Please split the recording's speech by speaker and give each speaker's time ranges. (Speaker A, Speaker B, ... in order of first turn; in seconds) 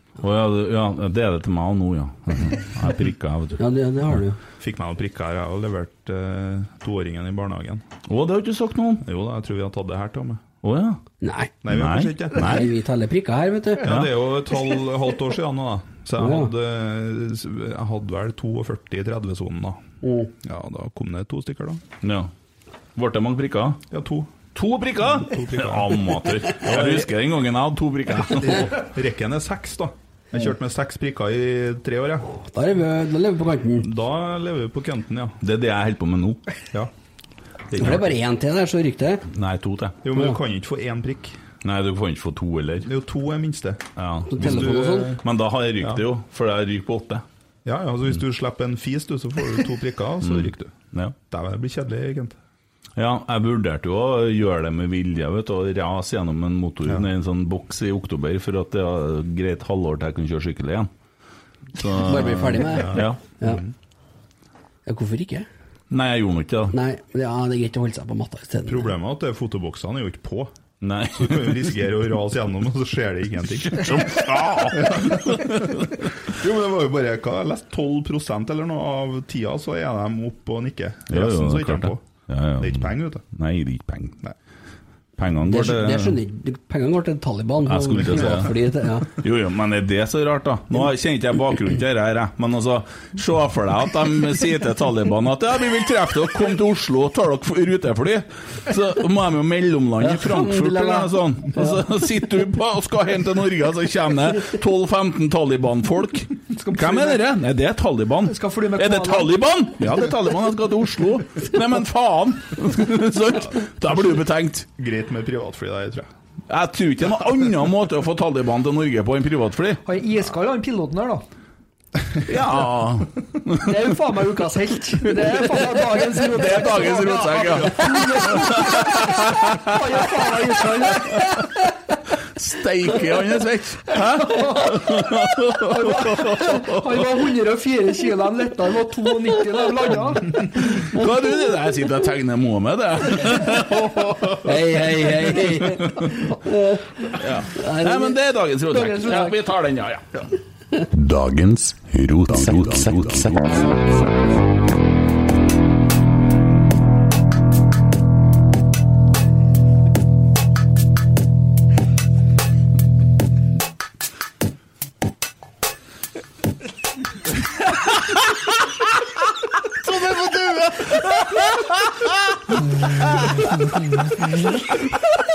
Speaker A: 0.2-3.6, 8.1-9.0, 10.6-11.0, 11.7-12.7, 13.8-14.1, 22.0-22.3, 23.0-23.9, 24.5-28.8, 35.4-36.4, 37.7-38.1, 39.3-40.0, 41.6-42.9, 44.0-47.2, 50.2-51.1, 53.0-60.9, 61.8-63.2, 65.9-66.8, 70.8-71.8, 73.7-75.8, 81.1-84.2, 85.2-86.2, 87.7-88.5, 89.1-114.7, 116.5-119.8, 122.2-123.7, 126.0-129.8, 132.3-136.8, 140.6-144.6, 145.1-146.2, 147.1-150.3, 150.9-153.6, 167.8-168.3, 169.7-173.6
Speaker B: 3.6-4.4, 11.2-11.5, 12.3-13.9, 16.2-16.5, 20.0-20.3, 32.4-33.9, 37.8-39.3, 44.3-45.2, 62.0-63.6, 64.9-65.5, 66.7-69.0, 85.5-89.1, 100.0-101.9, 144.3-148.2, 174.2-174.6
Speaker C: 4.6-7.8, 9.0-10.4, 11.6-12.7, 13.8-19.8, 20.4-21.8, 23.9-24.3, 25.1-27.1, 28.2-32.3, 33.8-35.4, 40.0-41.4, 42.8-43.9, 44.4-45.2, 47.6-52.4, 62.8-63.7, 68.7-70.5, 71.2-82.0, 82.6-83.2, 114.8-116.1
Speaker D: 106.6-107.2, 108.3-109.4, 119.8-121.2, 123.6-131.4, 134.2-135.0, 135.6-140.6, 148.7-149.4